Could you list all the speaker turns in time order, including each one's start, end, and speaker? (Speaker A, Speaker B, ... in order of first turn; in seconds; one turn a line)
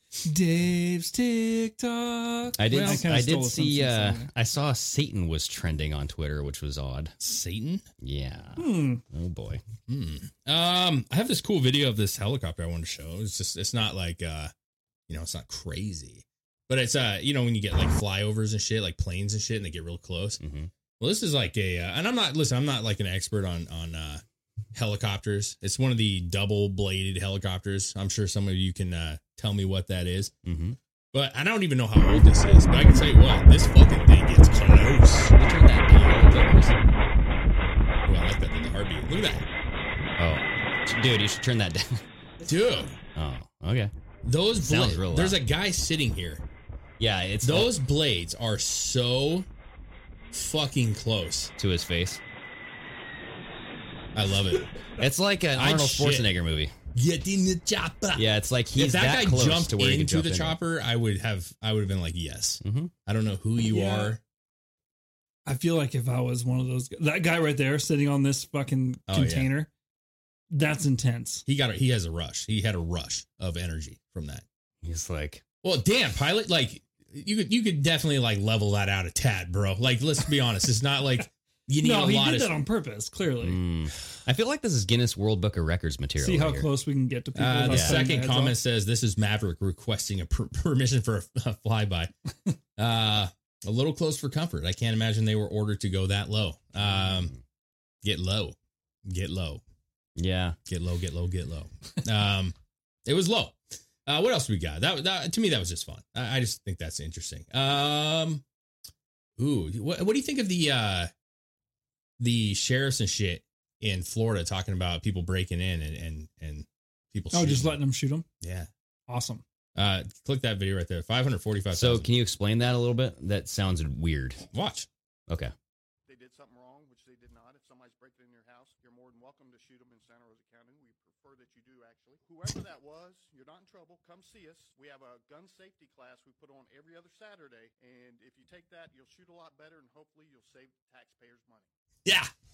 Speaker A: 0.2-4.3
Speaker B: 2.6-7.1
Speaker C: 2.7-3.1
Speaker C: 7.2-7.8
Speaker B: 8.0-9.6
Speaker A: 8.6-9.0
Speaker C: 9.9-14.5
Speaker C: 15.1-20.4
Speaker B: 20.4-20.7
Speaker C: 21.0-24.2
Speaker C: 24.7-30.3
Speaker B: 30.4-30.8
Speaker C: 31.1-35.4
Speaker B: 35.4-36.8
Speaker C: 36.0-36.3
Speaker C: 38.0-39.5
Speaker B: 40.2-42.0
Speaker C: 42.5-43.0
Speaker B: 43.1-43.9
Speaker C: 44.2-46.4
Speaker B: 44.5-45.4
Speaker B: 47.0-47.7
Speaker C: 47.4-49.5
Speaker C: 50.3-51.5
Speaker B: 51.6-52.2
Speaker C: 54.1-54.7
Speaker B: 55.0-56.7
Speaker C: 55.5-56.3
Speaker C: 56.9-64.2
Speaker B: 58.1-60.6
Speaker B: 62.6-62.9
Speaker A: 63.7-64.1
Speaker A: 65.5-69.7
Speaker C: 69.1-69.5
Speaker A: 70.5-71.4
Speaker C: 71.5-74.4
Speaker B: 74.8-75.4
Speaker C: 75.6-82.5
Speaker A: 81.8-83.6
Speaker B: 83.4-86.7
Speaker A: 86.2-88.5
Speaker C: 87.3-92.1
Speaker B: 87.7-88.0
Speaker C: 92.8-97.3
Speaker B: 96.8-97.3
Speaker C: 98.0-99.6
Speaker B: 100.2-100.6
Speaker C: 100.7-102.5
Speaker C: 103.0-108.4
Speaker C: 109.4-111.1
Speaker C: 112.2-117.8
Speaker A: 117.3-118.2
Speaker C: 118.4-118.7
Speaker A: 119.1-119.4
Speaker C: 119.8-122.1
Speaker B: 121.7-124.4
Speaker C: 124.5-124.9
Speaker D: 126.1-141.7
Speaker C: 142.0-142.3